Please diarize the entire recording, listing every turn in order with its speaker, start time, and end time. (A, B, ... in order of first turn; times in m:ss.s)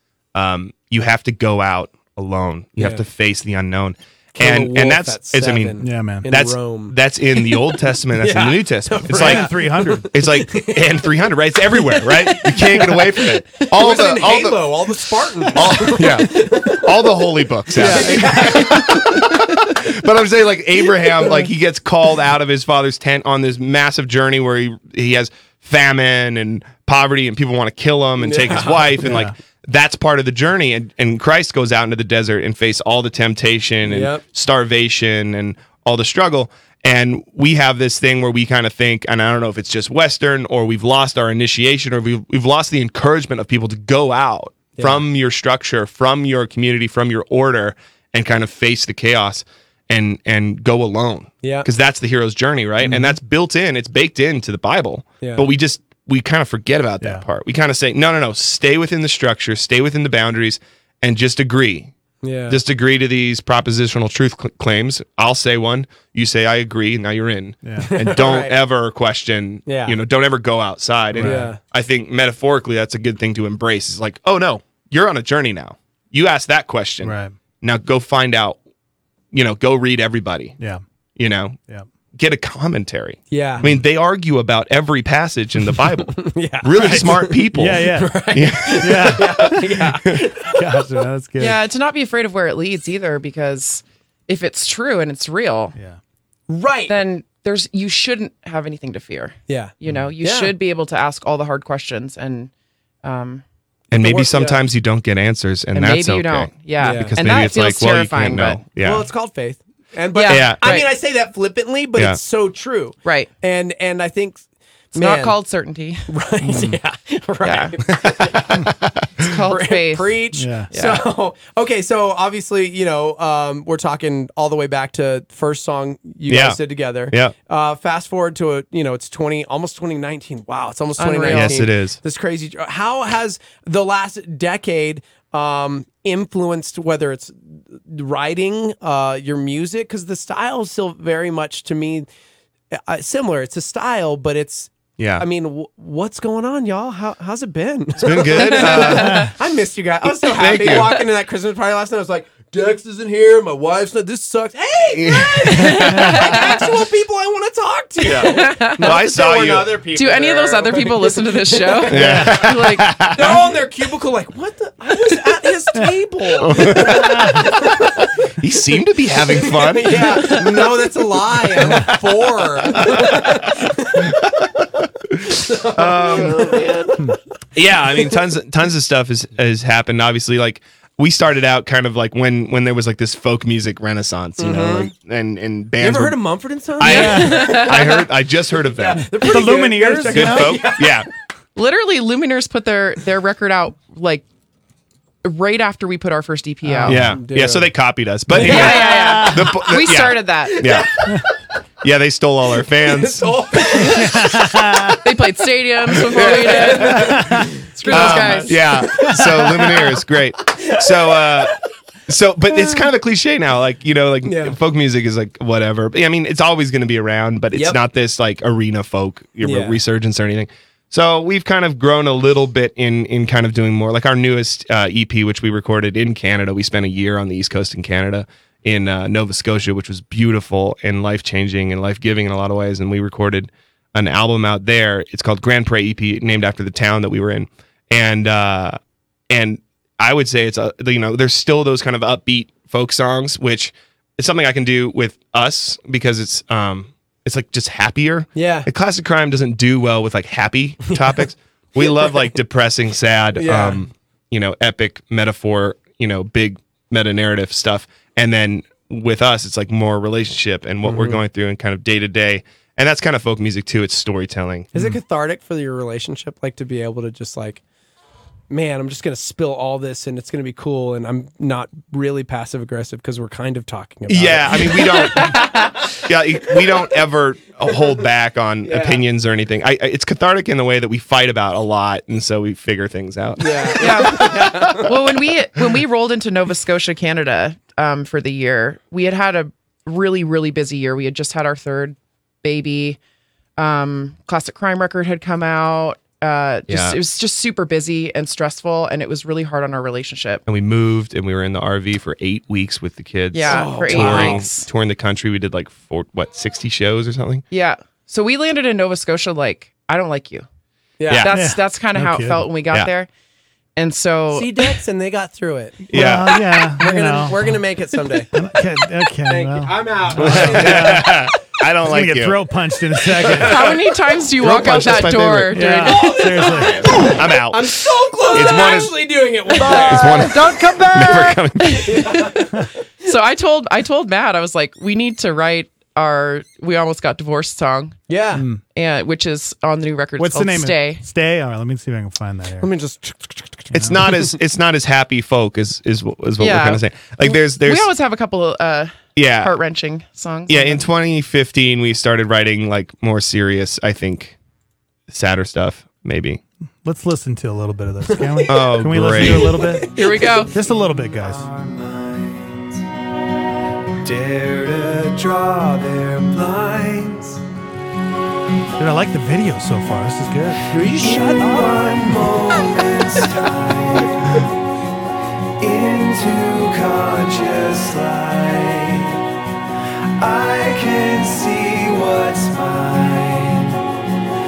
0:00.3-0:09.5 A
0:04.3-0:11.1 B
0:05.8-0:06.2 C
0:09.1-0:10.1 C
0:10.0-0:14.8 A
0:11.7-0:19.3 B
0:15.5-1:01.9 A
0:28.2-0:29.1 B
0:29.0-0:29.3 C
0:33.9-0:34.2 B
0:44.7-0:45.0 B
0:51.4-0:51.7 B
0:55.2-0:55.5 B
1:02.2-1:02.6 B
1:02.5-1:18.6 A
1:07.6-1:07.9 C
1:07.8-1:08.5 B
1:09.6-1:10.0 B
1:11.1-1:11.5 C
1:11.2-1:11.6 B
1:17.0-1:17.3 C
1:19.3-1:20.6 A
1:21.2-1:21.6 A
1:22.1-1:29.3 A
1:23.3-1:23.7 B
1:26.1-1:31.0 B
1:26.8-1:29.8 C
1:30.5-1:31.6 C
1:31.4-1:35.7 D
1:36.5-1:37.0 B
1:36.9-1:42.5 D
1:39.5-1:40.5 B
1:43.0-1:43.4 D
1:43.9-1:49.1 A
1:44.0-1:44.6 B
1:45.7-1:48.6 D
1:46.8-1:47.2 B
1:48.8-1:55.3 B
1:50.1-1:50.9 D
1:50.3-1:50.7 A
1:54.9-1:56.1 D
1:56.1-1:58.7 B
1:56.4-1:56.8 C
1:57.4-1:57.7 D
1:57.9-1:59.3 A
1:59.2-2:01.1 D
1:59.5-2:22.1 B
2:00.3-2:00.7 C
2:06.3-2:07.3 A
2:11.0-2:11.6 D
2:11.3-2:12.0 A
2:22.7-2:42.2 B
2:25.0-2:25.2 A
2:28.0-2:29.3 A
2:28.6-2:29.3 D
2:30.2-2:31.0 A
2:34.9-2:36.7 A
2:35.5-2:36.6 D
2:38.0-2:39.8 A
2:38.2-2:38.9 D
2:39.9-2:42.9 D
2:41.9-2:43.4 A
2:41.9-2:42.4 C
2:43.1-2:48.0 B
2:46.4-2:50.7 A
2:46.7-2:47.4 C
2:49.3-2:54.1 B
2:51.5-2:56.9 A
2:55.3-2:57.2 B
2:57.5-3:06.2 A
3:04.4-3:04.9 B
3:05.8-3:08.0 B
3:06.8-3:09.3 A
3:06.8-3:07.4 C
3:06.8-3:08.0 D
3:08.6-3:11.0 B
3:09.2-3:10.6 C
3:10.1-3:11.1 A
3:11.6-3:14.2 D
3:15.2-3:17.0 D
3:16.6-3:17.1 C
3:16.8-3:21.2 A
3:17.0-3:17.7 B
3:18.4-3:18.8 B
3:18.4-3:19.5 C
3:18.4-3:20.6 D
3:20.5-3:21.2 B
3:21.8-3:24.1 A
3:22.6-3:25.0 B
3:23.8-3:25.0 C
3:25.0-3:28.6 D
3:26.0-3:31.6 B
3:26.1-3:27.3 A
3:26.9-3:27.5 C
3:27.8-3:58.8 A
3:34.2-3:34.6 B
3:37.5-3:37.8 B
3:39.4-3:39.8 B
3:59.3-4:24.7 A
4:08.3-4:08.7 B
4:11.8-4:12.1 B
4:13.4-4:13.8 B
4:20.8-4:21.2 B
4:24.7-4:27.6 B
4:28.5-4:35.5 B
4:34.1-4:44.9 A
4:35.1-4:35.7 D
4:38.6-4:39.0 B
4:43.4-4:44.9 B
4:43.8-4:53.0 D
4:53.6-5:00.4 D
4:56.7-4:57.0 A
5:00.5-5:07.4 A
5:03.3-5:04.7 D
5:03.4-5:04.4 B
5:07.5-5:10.4 D
5:11.0-5:11.3 B
5:11.2-5:13.1 D
5:11.3-5:12.5 C
5:13.8-5:14.7 D
5:14.3-5:15.9 B
5:15.9-5:16.4 A
5:15.9-5:17.6 C
5:16.8-5:18.3 B
5:18.3-5:21.3 C
5:19.3-5:21.2 B
5:20.2-5:22.4 A
5:21.8-5:23.8 C
5:23.4-5:26.9 D
5:24.4-5:25.6 A
5:25.5-5:27.0 C
5:25.7-5:30.3 B
5:26.9-5:29.0 A
5:29.6-5:31.4 C
5:29.7-5:32.0 A
5:29.7-5:30.0 D
5:31.6-5:32.5 D
5:31.8-5:32.4 B
5:33.0-5:38.0 D
5:38.1-5:38.4 B
5:38.3-5:38.6 C
5:38.7-5:41.0 D
5:40.2-5:42.7 C
5:42.6-5:44.4 B
5:43.7-5:47.9 A
5:46.4-5:50.8 D
5:49.1-5:49.5 A
5:50.5-5:54.4 A
5:55.1-5:56.4 A
5:56.8-6:01.4 C
5:58.1-5:58.6 B
5:58.5-5:59.6 A
5:59.2-6:00.3 B
5:59.9-6:00.5 D
6:01.2-6:02.8 E
6:04.0-6:07.4 E
6:08.8-6:10.6 C
6:10.6-6:14.5 E
6:11.0-6:11.5 B
6:15.6-6:19.2 E
6:20.2-6:23.8 E